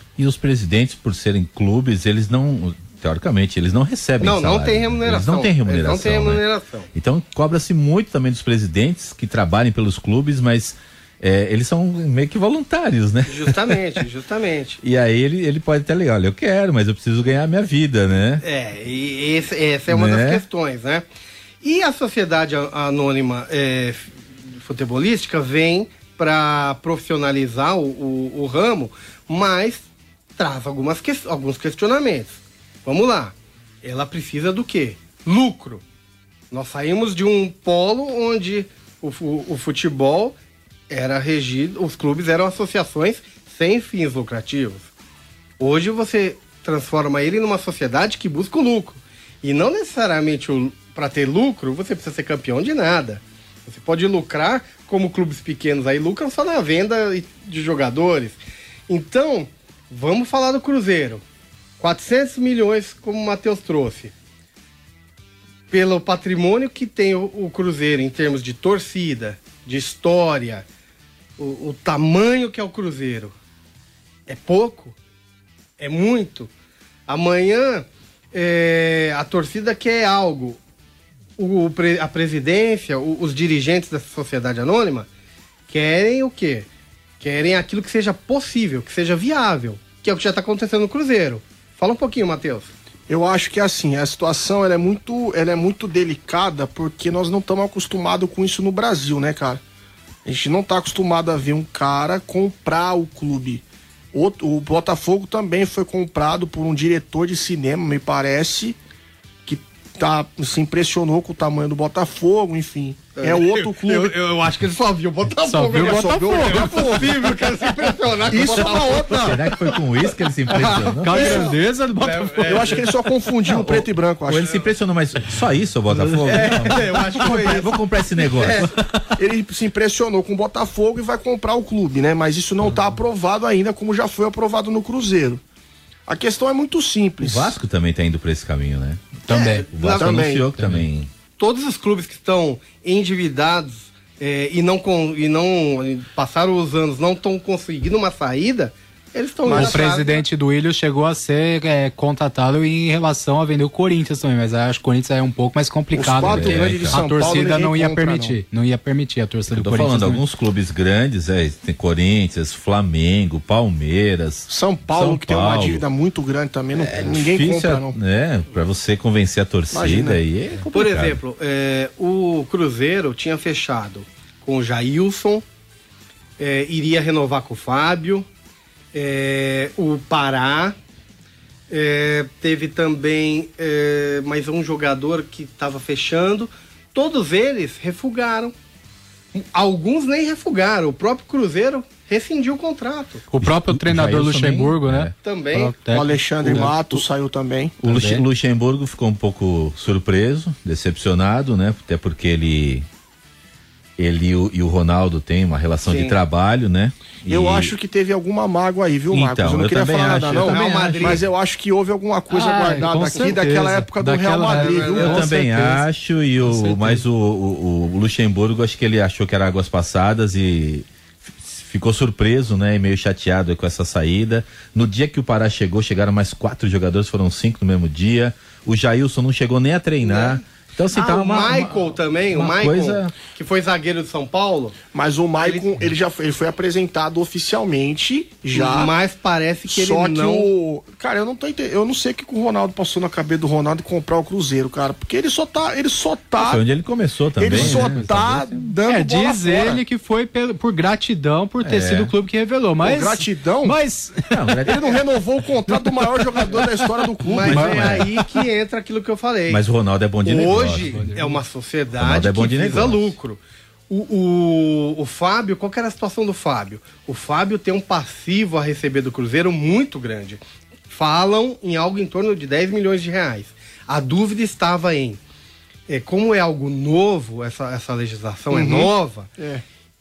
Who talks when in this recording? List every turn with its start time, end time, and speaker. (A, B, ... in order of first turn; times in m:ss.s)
0:00.2-0:06.4 A
0:04.2-0:06.9 B
0:06.9-0:13.8 A
0:13.3-0:14.8 B
0:14.8-0:18.4 A
0:18.4-0:21.0 B
0:19.9-0:20.4 A
0:21.6-0:29.8 B
0:30.4-0:35.8 B
0:36.5-0:40.4 B
0:40.9-0:44.9 B
0:45.6-1:01.2 B
1:01.8-1:04.1 B
1:05.7-1:10.6 B
1:11.4-1:13.3 B
1:14.3-1:15.0 B
1:15.8-1:16.5 B
1:17.1-1:20.6 B
1:21.4-1:25.1 B
1:25.7-1:26.7 B
1:27.2-1:32.7 B
1:33.1-1:39.6 C
1:40.2-1:48.8 C
1:49.4-1:54.1 C
1:53.2-1:59.8 B
1:55.4-1:56.9 D
1:55.7-1:57.2 C
1:58.2-1:59.5 C
1:59.1-2:01.5 A
2:00.5-2:02.9 B
2:00.6-2:02.8 D
2:01.1-2:01.6 C
2:02.4-2:04.5 C
2:03.5-2:08.7 A
2:06.2-2:08.7 B
2:09.2-2:15.4 C
2:16.1-2:17.5 C
2:17.2-2:21.1 A
2:19.3-2:19.6 D
2:19.3-2:20.4 B
2:20.6-2:20.9 D
2:21.4-2:30.2 B
2:29.4-2:29.9 C
2:29.5-2:40.2 D
2:35.9-2:38.4 C
2:36.1-2:37.4 A
2:39.5-2:45.8 A
2:44.5-2:48.0 C
2:46.8-2:51.2 A
2:49.7-2:50.2 C
2:50.7-2:55.4 B
2:56.4-2:58.3 B
2:58.9-3:00.8 B
3:01.7-3:08.5 B
3:09.3-3:13.2 B
3:13.3-3:16.8 D
3:13.4-3:15.1 A
3:15.2-3:15.7 B
3:15.9-3:17.8 C
3:16.4-3:16.7 A
3:17.8-3:22.8 A
3:17.8-3:18.2 D
3:24.0-3:27.7 A
3:25.8-3:26.2 B
3:27.3-3:35.3 C
3:29.1-3:31.2 A
3:30.3-3:31.2 B
3:32.3-3:35.8 D
3:34.5-3:35.3 B
3:35.0-3:40.8 A
3:36.4-3:37.0 D
3:41.4-3:53.1 A
3:50.0-3:54.8 B
3:54.9-3:58.9 C
3:55.4-3:55.7 B
3:58.5-4:00.5 B
3:59.7-4:06.6 C
4:06.4-4:08.7 A
4:07.4-4:09.8 C
4:07.4-4:08.2 D
4:08.8-4:14.7 D
4:11.6-4:12.1 A
4:12.8-4:13.8 C
4:14.3-4:15.0 A
4:14.6-4:18.0 C
4:15.7-4:18.2 D
4:17.2-4:19.6 B
4:17.4-4:18.1 A
4:19.5-4:21.1 A
4:20.2-4:35.2 B
4:20.8-4:21.4 D
4:22.0-4:23.1 A
4:35.9-4:39.3 B
4:38.5-4:39.6 C